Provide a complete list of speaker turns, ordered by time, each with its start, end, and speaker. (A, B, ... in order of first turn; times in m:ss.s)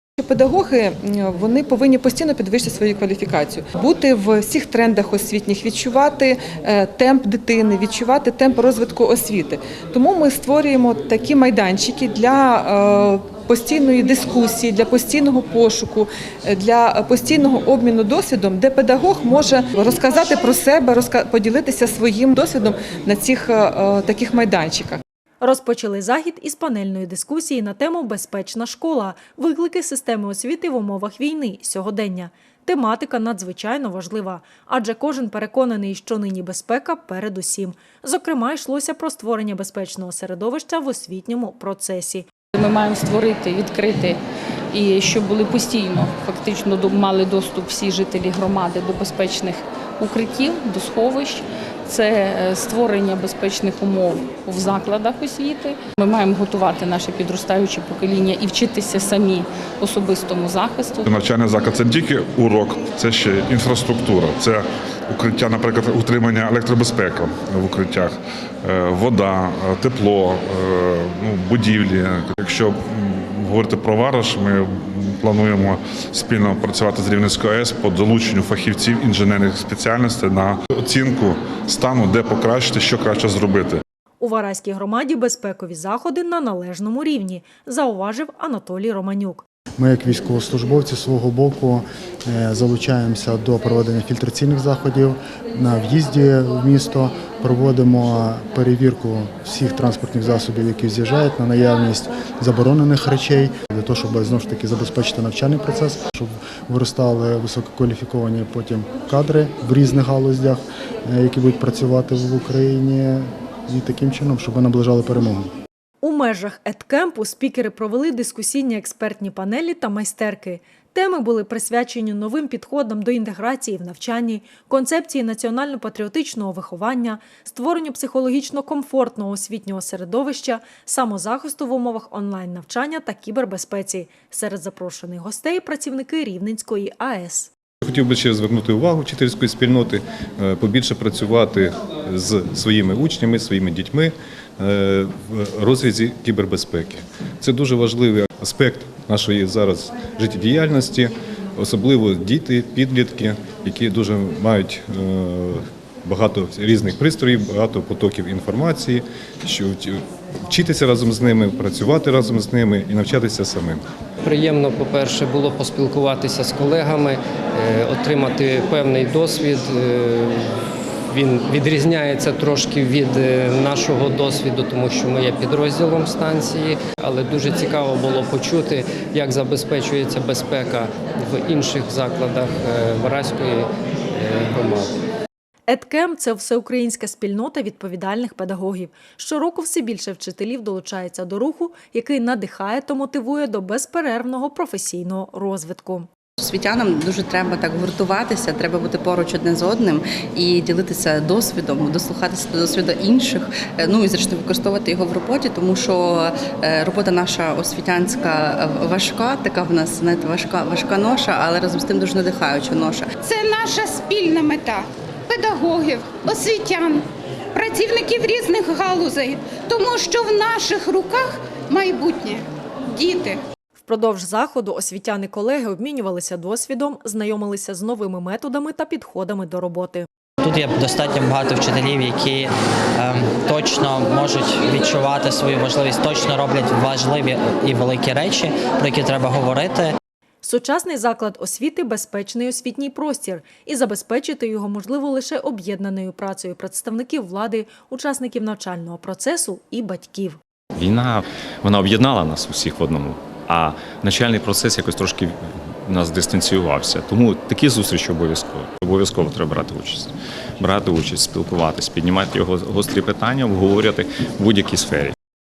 0:00.2-0:25.0 A
0:25.4-0:42.3 B
0:42.5-0:44.2 C
0:44.7-1:01.1 C
1:01.1-1:23.8 D
1:24.2-1:29.4 B
1:29.8-1:55.5 E
1:56.0-2:17.5 B
2:17.8-2:43.8 F
2:44.2-2:50.5 G
2:51.1-3:05.0 G
3:05.7-3:16.1 B
3:16.4-3:33.1 H
3:33.2-3:37.0 I
3:37.5-3:43.4 I
3:43.8-3:50.1 B
3:50.4-4:00.0 J
4:00.4-4:10.4 B
4:10.7-4:25.1 K